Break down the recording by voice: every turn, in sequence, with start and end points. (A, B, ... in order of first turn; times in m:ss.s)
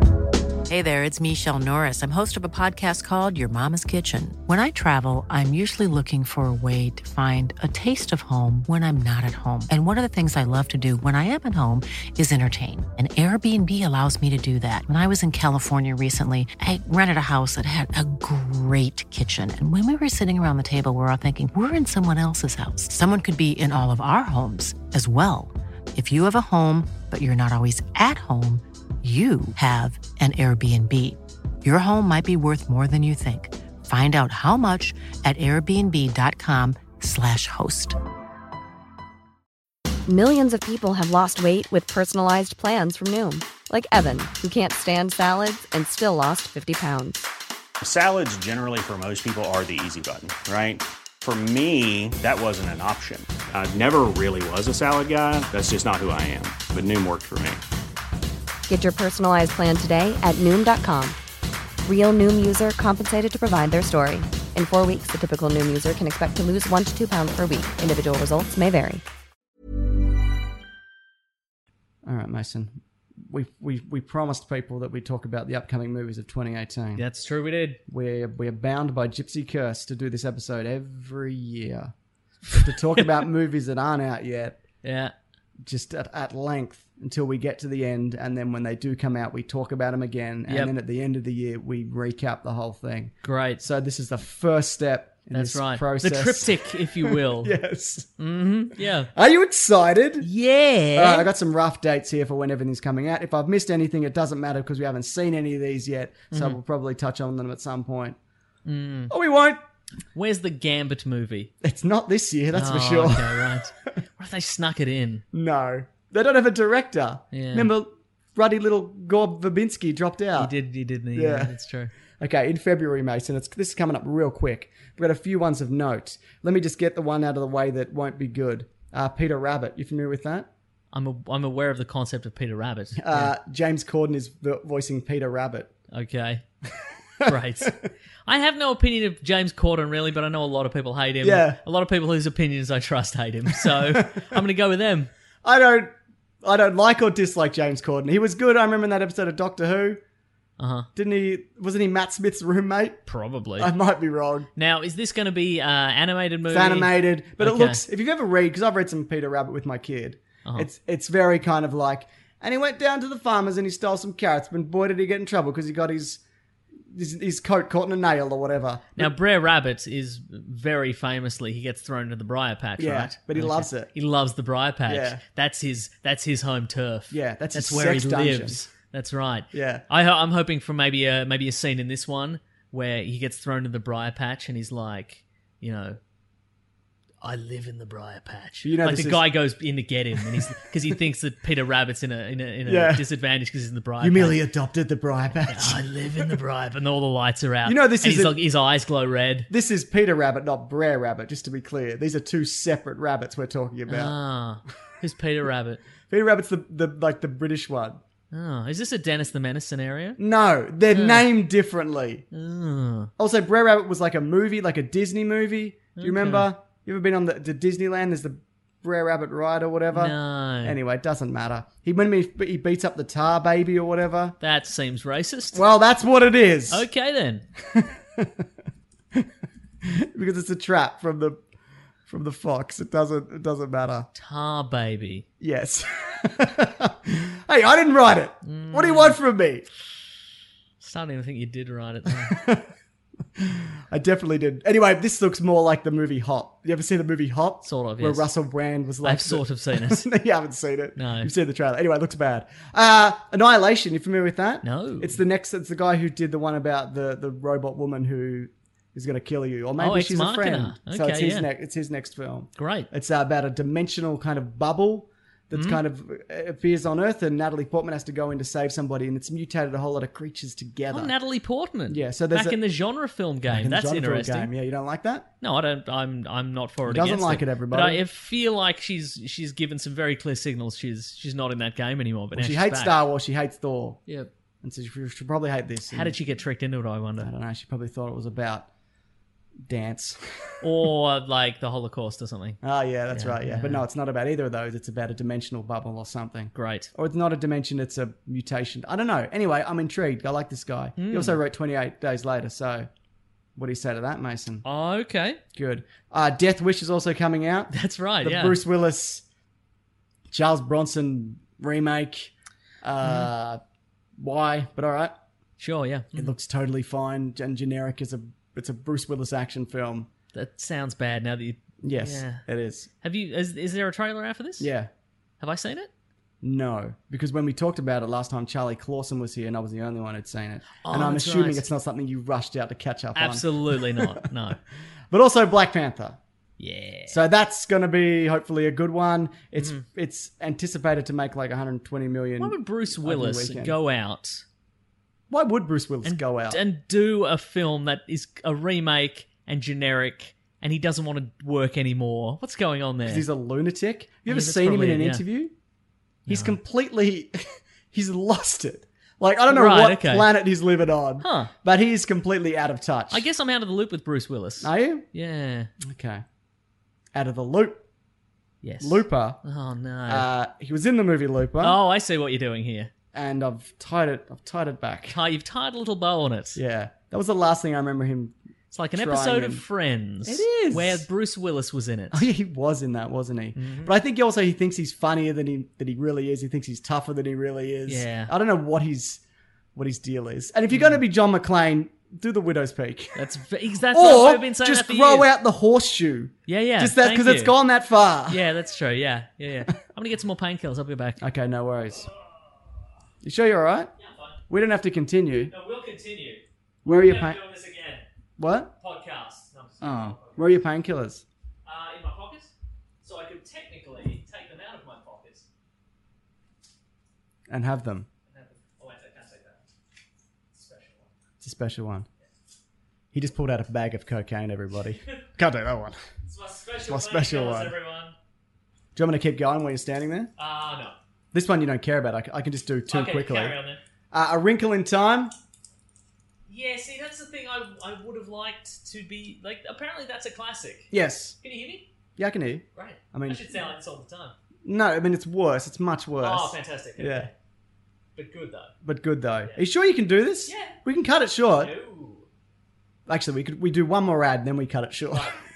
0:00.7-0:38.0 A
0:40.1-0:47.3 B
0:47.8-0:57.6 C
0:58.7-1:01.2 B
1:01.8-1:09.0 B
1:12.0-1:12.8 D
1:13.3-1:17.0 D
1:17.0-1:17.8 E
1:17.9-1:21.9 D
1:22.5-1:23.1 E
1:22.5-1:24.6 D
1:24.8-1:25.1 E
1:25.6-1:38.1 D
1:30.5-1:30.7 E
1:33.2-1:33.6 E
1:35.3-1:37.6 E
1:38.2-1:39.1 E
1:39.1-1:40.3 D
1:40.2-1:41.3 E
1:40.9-1:48.2 D
1:46.3-1:46.6 E
1:48.6-1:49.1 E
1:49.1-1:49.6 D
1:50.1-1:51.5 E
1:51.6-1:53.7 D
1:52.5-1:55.2 E
1:55.3-2:00.5 D
1:57.3-1:57.7 E
2:00.4-2:01.9 E
2:01.1-2:01.5 D
2:02.2-2:10.5 D
2:10.9-2:13.3 E
2:13.0-2:15.7 D
2:15.9-2:16.4 E
2:17.2-2:17.7 D
2:17.2-2:25.1 E
2:21.2-2:21.6 D
2:23.6-2:24.1 D
2:25.4-2:30.0 D
2:30.6-2:30.9 E
2:31.0-2:33.0 D
2:33.1-2:33.7 E
2:33.6-2:34.5 D
2:34.6-2:37.8 E
2:36.5-2:46.2 D
2:46.9-2:49.1 D
2:49.0-3:06.0 E
2:52.8-2:53.9 D
2:54.9-2:55.2 D
2:57.1-2:58.6 D
2:59.5-2:59.8 D
3:07.2-3:14.4 E
3:08.6-3:09.2 D
3:12.6-3:13.0 D
3:14.0-3:15.8 D
3:15.5-3:19.5 E
3:17.6-3:18.4 D
3:19.5-3:24.1 D
3:23.9-3:25.8 E
3:26.1-3:28.0 D
3:28.3-3:30.2 E
3:30.2-3:32.2 D
3:30.9-3:31.3 E
3:32.3-3:33.1 E
3:33.2-3:44.4 D
3:36.0-3:36.5 E
3:39.9-3:40.8 E
3:44.4-3:45.6 E
3:45.5-3:46.9 D
3:46.7-3:47.4 E
3:47.7-3:48.4 D
3:49.8-3:51.4 D
3:52.1-3:54.1 D
3:54.1-3:55.2 E
3:55.4-3:59.6 D
3:58.4-3:59.2 E
4:00.8-4:02.4 E
4:02.2-4:02.6 D
4:03.4-4:31.1 D
4:07.6-4:08.3 E
4:09.0-4:10.1 E
4:11.0-4:11.3 E
4:14.6-4:15.2 E
4:19.8-4:21.5 E
4:22.6-4:22.9 E
4:25.5-4:25.8 E
4:30.9-4:34.5 E
4:31.9-4:32.6 D
4:33.5-4:35.3 D
4:35.4-4:43.0 E
4:36.9-4:38.0 D
4:42.3-4:44.0 D
4:44.6-4:46.2 D
4:45.9-4:47.3 E
4:47.2-4:48.7 D
4:49.7-4:50.2 D
4:50.6-4:52.6 E
4:52.6-5:02.9 D
4:53.1-4:53.8 E
4:56.5-4:56.9 E
5:01.0-5:01.4 E
5:03.6-5:04.6 D
5:04.6-5:05.4 E
5:05.5-5:09.2 D
5:07.7-5:08.6 E
5:10.3-5:12.3 D
5:12.8-5:13.6 D
5:14.2-5:15.1 D
5:15.6-5:16.3 E
5:16.1-5:20.1 D
5:20.3-5:22.4 E
5:21.8-5:22.9 D
5:23.0-5:24.7 E
5:24.6-5:24.9 D
5:25.4-5:25.9 E
5:26.4-5:34.2 D
5:30.8-5:31.6 E
5:33.2-5:34.6 E
5:35.1-5:36.2 D
5:36.6-5:37.2 E
5:37.1-5:43.7 D
5:42.4-5:44.4 E
5:45.3-5:46.6 D
5:46.0-5:53.2 E
5:53.0-5:55.5 D
5:54.3-5:55.2 E
5:56.2-5:56.6 E
5:56.3-6:03.3 D
5:59.5-6:00.3 E
6:01.2-6:01.5 E
6:03.1-6:05.7 E
6:04.6-6:05.0 D
6:05.8-6:06.2 D
6:07.1-6:07.8 D
6:08.6-6:10.3 E
6:08.8-6:09.4 D
6:10.1-6:11.8 D
6:11.6-6:12.9 E
6:13.1-6:15.2 D
6:15.1-6:16.6 E
6:16.6-6:18.3 D
6:18.7-6:22.3 E
6:18.9-6:19.6 D
6:20.2-6:21.0 D
6:22.1-6:29.2 D
6:23.6-6:23.9 E
6:27.9-6:28.3 E
6:29.7-6:33.2 D
6:30.7-6:31.0 E
6:33.1-6:35.3 E
6:33.9-6:38.4 D
6:36.5-6:37.5 E
6:38.3-6:41.2 E
6:41.2-6:42.1 D
6:43.2-6:43.9 D
6:44.0-6:44.4 E
6:44.5-6:45.5 D
6:45.5-6:48.0 E
6:46.8-6:47.4 D
6:48.4-6:48.7 D
6:48.8-6:50.6 E
6:49.8-6:51.2 D
6:51.6-6:55.5 E
6:57.5-6:58.1 D
6:58.3-6:59.6 E
7:00.5-7:01.1 E
7:01.4-7:02.1 D
7:03.1-7:06.0 D
7:06.3-7:08.1 E
7:06.9-7:07.7 D
7:08.9-7:10.3 D
7:10.4-7:11.0 E
7:11.3-7:13.6 D
7:12.9-7:13.8 E
7:14.1-7:15.3 D
7:16.5-7:21.9 E
7:20.9-7:21.4 D
7:22.2-7:23.5 D
7:22.8-7:24.3 E
7:24.6-7:27.3 D
7:26.2-7:27.3 E
7:28.2-7:28.7 E
7:28.8-7:31.7 D
7:30.4-7:30.8 E
7:31.6-7:32.3 E
7:33.1-7:35.3 D